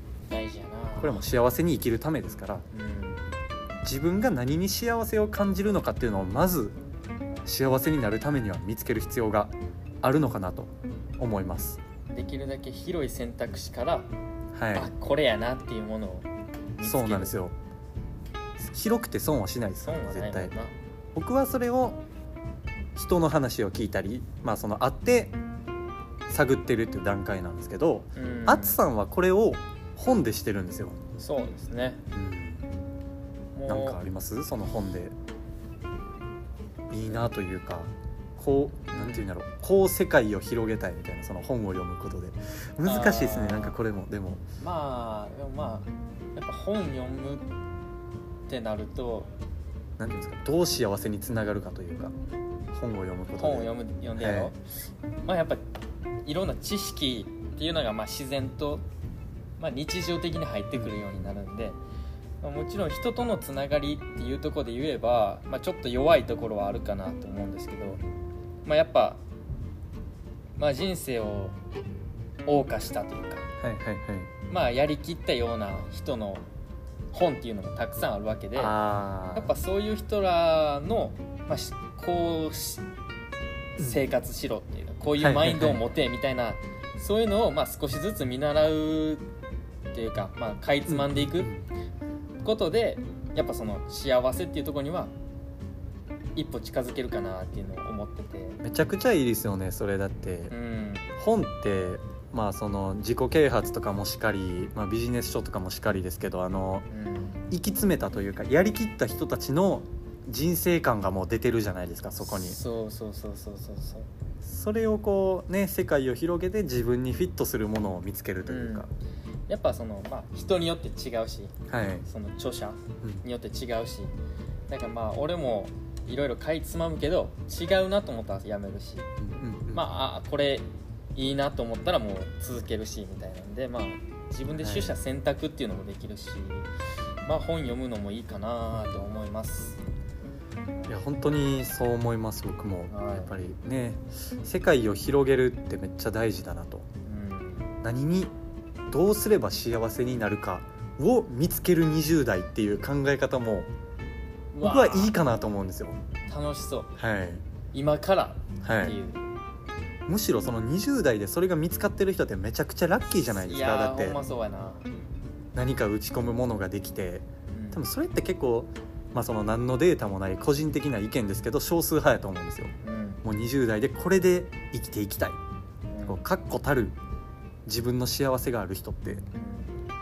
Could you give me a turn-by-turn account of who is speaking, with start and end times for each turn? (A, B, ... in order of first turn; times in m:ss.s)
0:00.3-0:01.2 A
0:01.0-0:02.6 B
0:02.7-0:03.2 A
0:03.8-0:06.7 B
0:07.4-0:11.8 B
0:12.1-0:14.1 A
0:14.5-0:14.9 B
0:14.7-0:17.3 A
0:16.8-0:17.5 B
0:18.6-0:20.5 B
0:19.8-0:20.7 A
0:21.1-0:22.0 B
0:22.9-0:25.4 B
0:26.3-0:31.0 B
0:28.1-0:28.8 A
0:31.2-0:32.0 A
0:32.1-0:32.6 B
0:33.5-0:34.0 A
0:33.7-0:35.1 B
0:36.9-0:44.4 B
0:38.9-0:39.2 A
0:42.8-0:43.8 A
0:44.6-0:47.4 A
0:48.5-0:49.3 A
0:50.0-0:52.1 B
0:52.7-0:54.5 B
0:53.3-0:54.6 A
0:55.2-0:55.6 A
0:56.2-0:58.8 A
0:59.6-1:01.8 A
1:02.4-1:08.0 A
1:08.6-1:09.2 A
1:10.6-1:11.5 A
1:12.5-1:13.4 A
1:13.6-1:14.3 B
1:14.5-1:16.4 A
1:17.1-1:18.7 A
1:18.6-1:19.5 B
1:19.3-1:22.8 A
1:23.8-1:29.2 A
1:25.2-1:25.8 B
1:29.9-1:31.5 A
1:30.9-1:31.6 B
1:32.4-1:35.1 A
1:36.4-1:38.6 A
1:38.6-1:40.5 B
1:40.5-1:41.0 A
1:41.2-1:46.8 B
1:46.9-1:47.4 A
1:47.5-1:52.6 B
1:52.2-1:54.1 A
1:54.4-1:58.9 B
1:58.5-1:58.9 A
1:59.5-2:01.5 A
2:01.7-2:02.0 B
2:02.0-2:04.1 A
2:04.7-2:09.1 A
2:09.2-2:09.8 B
2:09.7-2:16.7 A
2:14.6-2:15.0 B
2:17.2-2:19.8 A
2:18.8-2:19.1 B
2:20.9-2:26.8 B
2:22.9-2:23.3 A
2:27.0-2:27.7 A
2:27.8-2:28.3 B
2:28.9-2:33.7 B
2:34.5-2:35.1 A
2:34.6-2:36.0 B
2:36.3-2:36.9 A
2:37.0-2:37.4 B
2:37.7-2:39.2 A
2:38.6-2:38.9 B
2:40.1-2:44.2 B
2:43.3-2:44.8 A
2:45.5-2:52.7 B
2:47.5-2:47.8 A
2:52.8-2:53.2 A
2:53.2-2:55.4 B
2:55.9-2:56.2 A
2:56.0-2:57.0 B
2:57.6-2:59.2 B
2:59.3-2:59.7 A